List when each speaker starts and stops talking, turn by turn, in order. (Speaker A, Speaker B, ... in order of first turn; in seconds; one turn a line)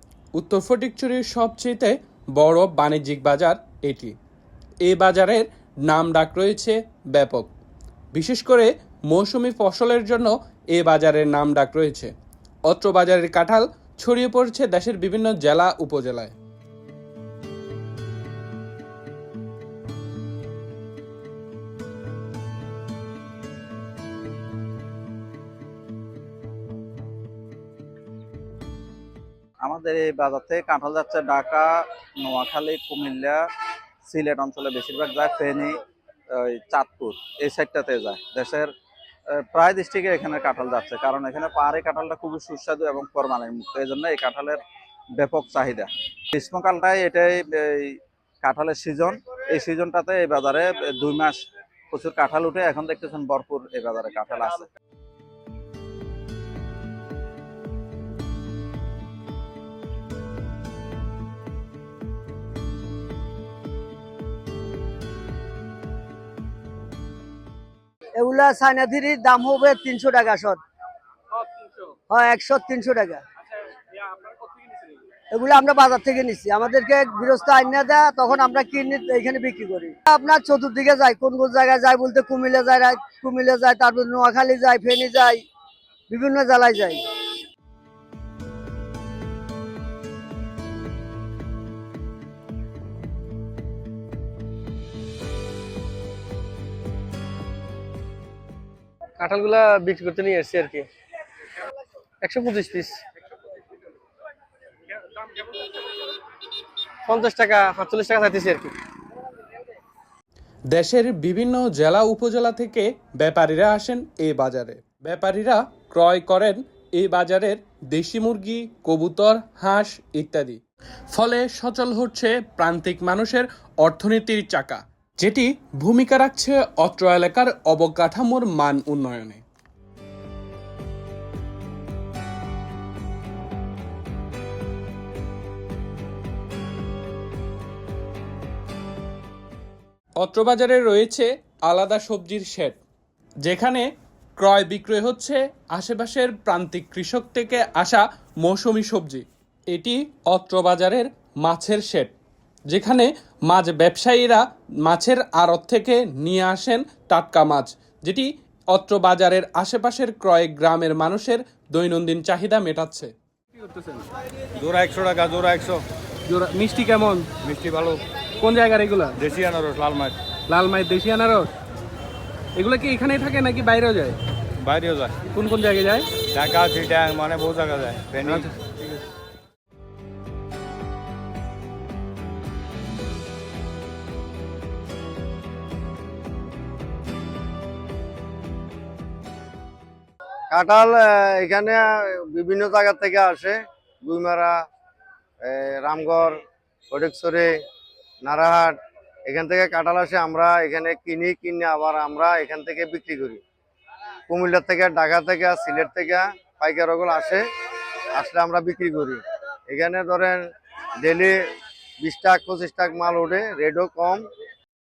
Speaker A: 0.3-4.1
Speaker A: 4.8-7.5
Speaker A: 8.1-12.1
Speaker A: 12.7-16.3
Speaker B: 29.6-33.4
Speaker B: 34.1-35.8
Speaker B: 36.3-38.7
Speaker B: 39.3-44.6
Speaker B: 45.2-51.4
Speaker B: 51.9-54.7
Speaker C: 68.2-70.6
Speaker C: 72.1-73.2
Speaker C: 75.3-85.4
Speaker C: 86.1-87.0
Speaker D: 99.2-100.7
Speaker C: 99.5-100.0
Speaker D: 102.2-103.0
Speaker C: 107.1-108.7
Speaker D: 107.2-108.7
Speaker A: 110.7-120.6
Speaker A: 121.1-129.4
Speaker A: 140.2-142.8
Speaker A: 143.4-143.9
Speaker A: 144.4-152.1
Speaker A: 152.7-164.0
Speaker E: 164.6-165.8
Speaker A: 166.3-167.3
Speaker E: 167.4-168.0
Speaker A: 168.4-169.2
Speaker E: 169.2-170.2
Speaker A: 170.5-171.5
Speaker A: 172.6-174.2
Speaker E: 174.6-175.2
Speaker A: 175.2-176.1
Speaker E: 176.3-178.7
Speaker F: 190.5-194.6
Speaker F: 195.4-197.5
Speaker F: 198.2-198.8
Speaker F: 199.3-203.4
Speaker F: 204.3-207.4
Speaker F: 208.2-210.4
Speaker F: 211.0-211.4
Speaker F: 212.0-214.2